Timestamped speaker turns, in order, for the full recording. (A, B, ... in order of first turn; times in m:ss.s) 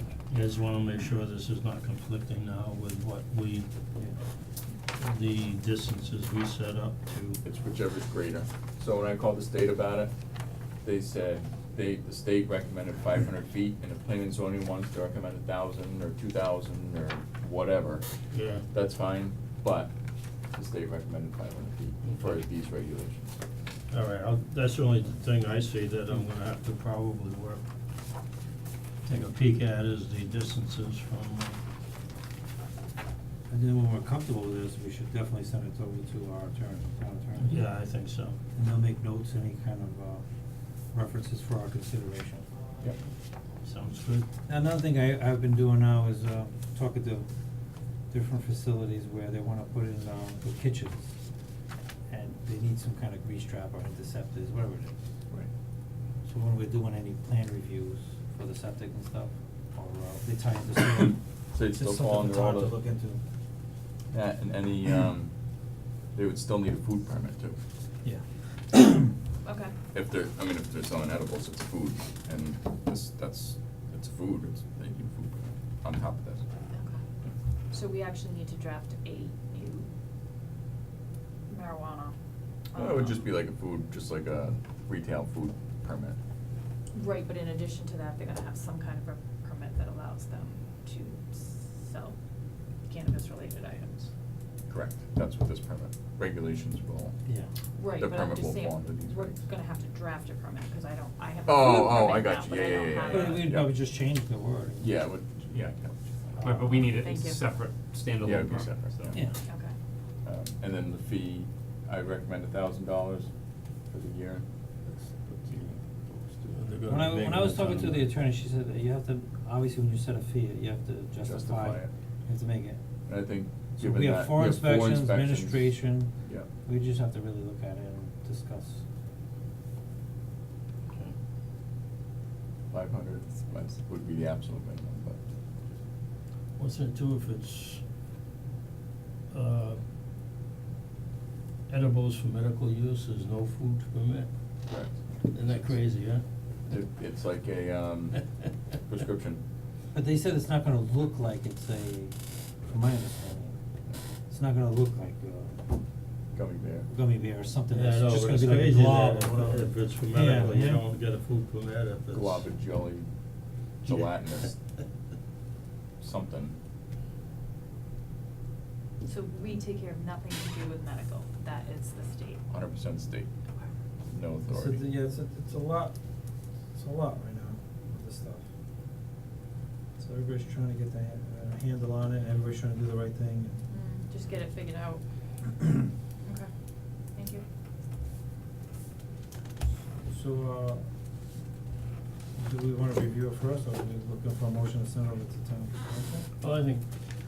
0:00.3-0:03.7 A
0:05.0-0:07.4 A
0:07.4-0:10.1 B
0:10.8-0:19.9 B
0:18.3-0:18.7 A
0:20.5-0:23.4 B
0:22.0-0:22.3 A
0:23.9-0:27.6 A
0:29.0-0:31.6 A
0:33.5-0:37.6 C
0:37.4-0:38.4 A
0:38.6-0:40.3 C
0:40.9-0:42.5 C
0:43.6-0:44.3 A
0:44.5-0:47.3 C
0:48.1-0:51.1 C
0:52.1-0:55.0 C
0:56.2-1:03.2 C
1:01.5-1:02.8 B
1:04.1-1:05.3 B
1:06.1-1:07.6 B
1:08.0-1:09.2 C
1:09.4-1:09.7 D
1:09.9-1:16.4 B
1:16.7-1:17.0 D
1:17.7-1:19.9 D
1:21.5-1:22.1 D
1:22.7-1:23.2 D
1:22.8-1:26.2 B
1:26.9-1:32.2 D
1:32.9-1:34.1 D
1:34.7-1:37.2 B
1:37.8-1:43.5 D
1:38.0-1:39.4 B
1:41.5-1:43.8 B
1:43.1-1:45.0 C
1:44.8-1:46.4 B
1:46.4-1:46.8 C
1:46.4-1:49.2 E
1:47.0-1:47.4 D
1:48.2-1:49.2 B
1:49.1-1:49.4 C
1:49.5-1:49.8 D
1:50.2-1:53.3 B
1:53.8-1:56.8 B
1:56.5-1:58.0 A
1:56.9-2:02.8 C
2:01.2-2:01.9 B
2:03.1-2:06.5 B
2:03.8-2:08.8 C
2:12.7-2:15.7 B
2:16.6-2:17.8 A
2:19.3-2:19.8 A
2:21.7-2:24.3 A
2:24.7-2:25.7 B
2:25.3-2:26.2 A
2:26.6-2:28.2 B
2:28.7-2:29.4 B
2:29.9-2:33.6 C
2:34.3-2:35.8 C
2:36.3-2:36.9 B
2:36.9-2:40.8 C
2:37.7-2:42.5 A
2:42.1-2:43.1 B
2:43.8-2:44.6 B
2:46.0-2:46.6 B
2:49.0-2:52.4 D
2:52.5-2:53.3 B
2:54.1-2:54.8 B
2:54.5-2:56.0 C
2:56.7-2:58.5 C
3:00.0-3:03.6 C
3:03.7-3:05.0 D
3:06.2-3:07.4 D
3:10.0-3:10.8 C
3:12.4-3:16.3 C
3:16.4-3:16.8 A